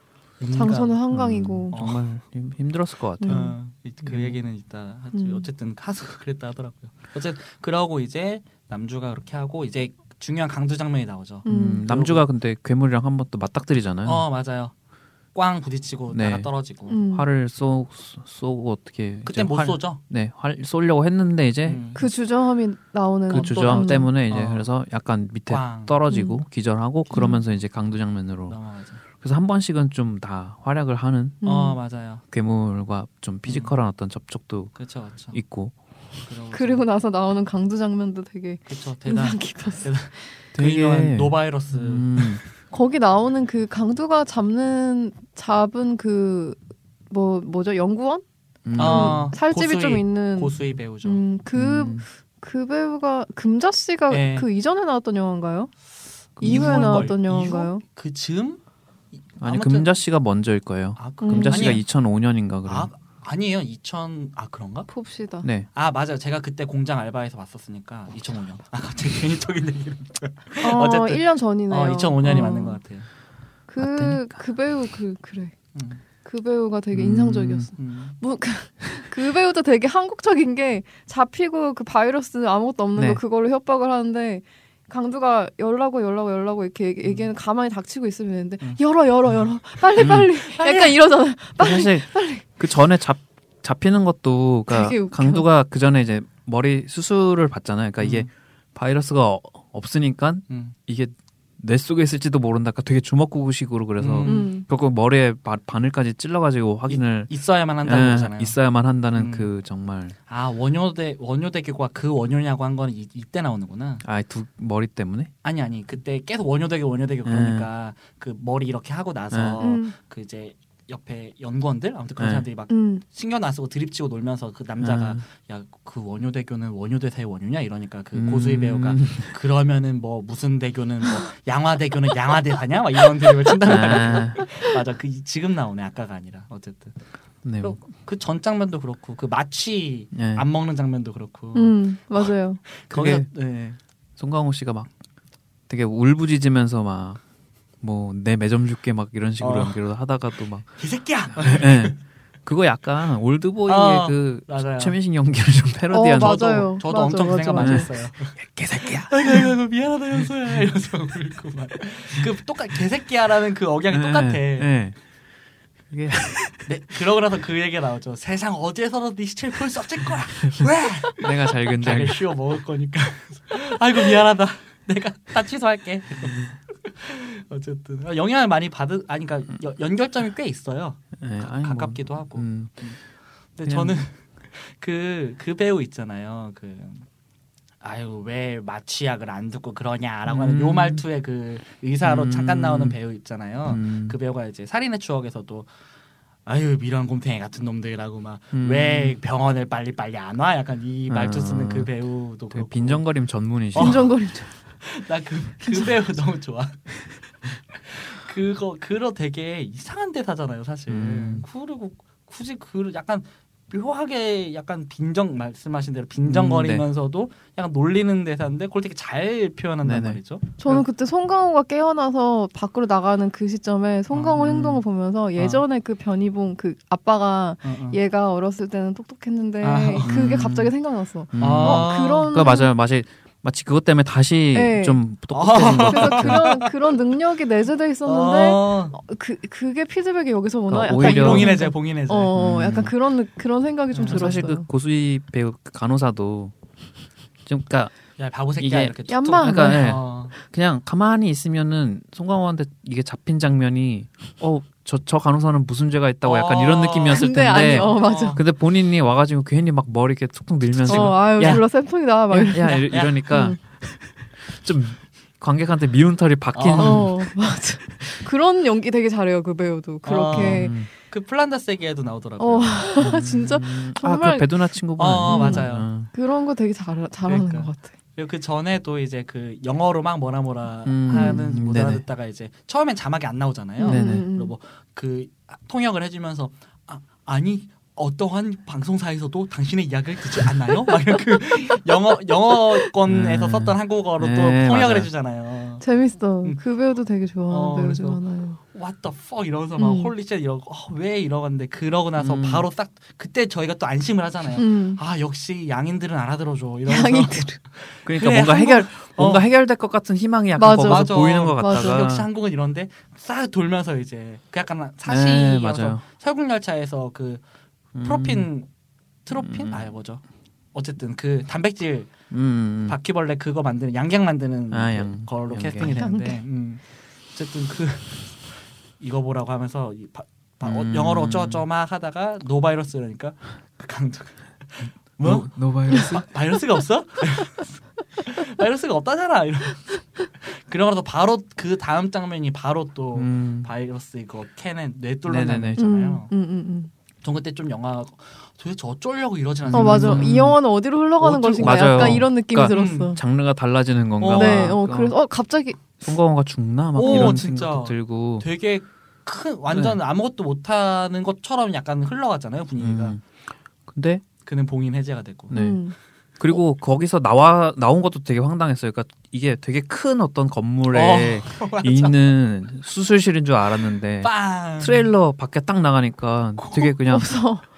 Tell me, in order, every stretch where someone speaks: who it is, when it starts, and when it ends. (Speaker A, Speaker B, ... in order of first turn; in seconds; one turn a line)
Speaker A: 0.4-1.0
Speaker B: 0.5-1.8
Speaker C: 1.1-3.5
Speaker A: 1.7-2.0
Speaker B: 3.2-3.5
Speaker A: 3.2-12.2
Speaker C: 4.0-4.4
Speaker B: 5.1-5.5
Speaker B: 11.4-11.9
Speaker C: 11.5-14.3
Speaker A: 14.1-14.7
Speaker A: 15.3-17.0
Speaker C: 16.1-16.5
Speaker B: 16.9-17.3
Speaker C: 17.1-21.8
Speaker A: 19.2-20.0
Speaker A: 21.7-22.0
Speaker B: 21.9-24.1
Speaker A: 23.3-24.7
Speaker C: 23.3-28.6
Speaker A: 25.5-26.0
Speaker B: 26.1-26.4
Speaker B: 27.1-27.4
Speaker A: 28.5-29.0
Speaker C: 29.2-31.4
Speaker B: 31.4-31.8
Speaker A: 31.4-32.2
Speaker C: 32.3-34.8
Speaker A: 33.5-33.7
Speaker A: 34.8-35.4
Speaker C: 35.3-35.7
Speaker A: 36.2-36.9
Speaker B: 36.5-39.9
Speaker A: 38.7-42.5
Speaker C: 40.5-42.4
Speaker B: 42.7-46.6
Speaker B: 47.1-48.2
Speaker C: 48.6-49.3
Speaker B: 48.8-55.7
Speaker A: 48.8-51.2
Speaker C: 51.5-52.0
Speaker A: 54.1-54.5
Speaker C: 56.4-57.1
Speaker A: 56.4-58.6
Speaker B: 56.4-57.8
Speaker A: 59.4-60.0
Speaker C: 59.4-62.9
Speaker A: 61.0-61.9
Speaker B: 61.2-61.8
Speaker A: 62.7-64.9
Speaker B: 64.9-65.5
Speaker C: 65.4-65.7
Speaker A: 65.8-73.1
Speaker B: 70.6-72.8
Speaker B: 73.7-75.5
Speaker C: 73.8-74.4
Speaker A: 75.7-76.0
Speaker B: 76.2-92.5
Speaker C: 76.9-77.7
Speaker A: 77.8-78.2
Speaker C: 83.0-83.2
Speaker C: 90.0-90.3
Speaker A: 90.4-91.0
Speaker C: 91.6-107.3
Speaker B: 94.7-95.5
Speaker A: 98.0-98.3
Speaker A: 100.5-100.8
Speaker A: 104.0-104.5
Speaker B: 104.3-104.7
Speaker A: 106.9-108.6
Speaker C: 107.8-110.2
Speaker A: 109.2-109.5
Speaker A: 110.3-114.0
Speaker C: 114.0-115.3
Speaker A: 115.4-137.0
Speaker C: 117.2-117.7
Speaker C: 119.3-119.6
Speaker B: 119.6-119.9
Speaker C: 122.2-122.5
Speaker B: 122.7-123.0
Speaker C: 124.8-125.2
Speaker C: 128.1-129.3
Speaker C: 133.7-134.4
Speaker C: 137.4-137.8
Speaker A: 137.6-143.8
Speaker C: 140.2-140.5
Speaker B: 141.6-142.6
Speaker C: 142.9-143.3
Speaker C: 144.2-144.9
Speaker C: 145.7-147.2
Speaker C: 147.8-150.8
Speaker A: 149.4-149.8
Speaker A: 150.8-152.0
Speaker C: 151.3-156.7
Speaker A: 153.7-155.0
Speaker B: 155.9-157.9
Speaker A: 156.1-164.7
Speaker C: 157.6-159.5
Speaker C: 160.2-160.6
Speaker C: 163.9-165.0
Speaker C: 165.9-166.7
Speaker A: 166.7-183.0
Speaker C: 170.5-172.3
Speaker C: 181.2-182.8
Speaker A: 183.6-187.1
Speaker C: 183.7-184.0
Speaker A: 187.8-195.7
Speaker C: 190.3-191.0
Speaker C: 192.0-193.0
Speaker C: 193.7-194.2
Speaker A: 196.5-203.1
Speaker C: 198.5-199.2
Speaker C: 201.1-201.9
Speaker C: 202.5-204.1
Speaker A: 203.8-204.1
Speaker B: 203.8-204.5
Speaker A: 204.8-207.0
Speaker B: 205.6-205.9
Speaker A: 207.8-220.6
Speaker C: 210.9-211.5
Speaker C: 216.3-216.8
Speaker C: 219.8-220.2
Speaker B: 220.6-232.7
Speaker A: 224.1-224.8
Speaker A: 225.4-225.6
Speaker A: 227.6-228.0
Speaker A: 229.6-230.1
Speaker C: 230.0-230.7
Speaker C: 231.3-236.4
Speaker A: 231.4-232.3
Speaker B: 234.5-235.0
Speaker A: 235.3-236.9
Speaker B: 235.5-244.7
Speaker A: 238.1-239.0
Speaker C: 240.7-241.6
Speaker A: 241.0-242.3
Speaker C: 242.3-242.9
Speaker A: 243.9-244.4
Speaker C: 244.1-246.6
Speaker C: 247.5-247.9
Speaker A: 248.2-250.3
Speaker C: 248.6-261.7
Speaker B: 249.1-249.9
Speaker A: 256.2-258.4
Speaker B: 257.1-258.4
Speaker A: 260.9-261.6
Speaker B: 260.9-263.6
Speaker C: 262.3-268.1
Speaker A: 262.6-263.4
Speaker A: 266.5-267.1
Speaker B: 266.8-270.8
Speaker A: 270.1-273.1
Speaker C: 270.3-270.9
Speaker B: 272.4-274.6
Speaker C: 273.0-276.1
Speaker A: 275.0-275.9
Speaker B: 275.3-277.9
Speaker A: 277.3-295.8
Speaker C: 280.9-282.0
Speaker B: 281.1-281.4
Speaker B: 283.8-284.5
Speaker C: 283.9-284.3
Speaker C: 293.1-295.1
Speaker B: 295.8-298.6
Speaker A: 297.5-298.2
Speaker A: 298.7-309.4
Speaker B: 299.8-300.1
Speaker C: 302.2-302.7
Speaker B: 304.6-305.0
Speaker B: 306.9-307.6
Speaker C: 308.1-312.3
Speaker B: 310.6-312.1
Speaker A: 310.8-317.4
Speaker C: 315.1-316.0
Speaker C: 317.9-318.5
Speaker A: 318.0-318.7
Speaker A: 319.2-320.2
Speaker C: 319.4-319.9
Speaker A: 320.7-322.1
Speaker C: 322.3-323.0
Speaker A: 322.9-346.3
Speaker C: 324.7-326.0
Speaker B: 325.8-326.4
Speaker C: 330.6-331.6
Speaker C: 335.2-336.3
Speaker C: 343.1-343.7
Speaker C: 345.3-345.8
Speaker B: 345.8-346.9
Speaker A: 347.2-350.5
Speaker C: 349.7-350.6
Speaker B: 349.7-353.2
Speaker A: 351.2-353.1
Speaker C: 351.6-355.2
Speaker A: 354.2-354.8
Speaker B: 354.3-355.8
Speaker C: 356.0-358.5
Speaker A: 357.0-363.2
Speaker B: 357.0-357.4
Speaker C: 359.7-360.0
Speaker C: 362.8-363.2
Speaker C: 363.9-364.2
Speaker A: 364.4-365.6
Speaker C: 365.5-365.8
Speaker B: 365.5-366.0
Speaker C: 366.4-377.5
Speaker A: 370.9-372.3
Speaker A: 374.2-375.1
Speaker A: 376.6-376.9
Speaker B: 377.0-377.7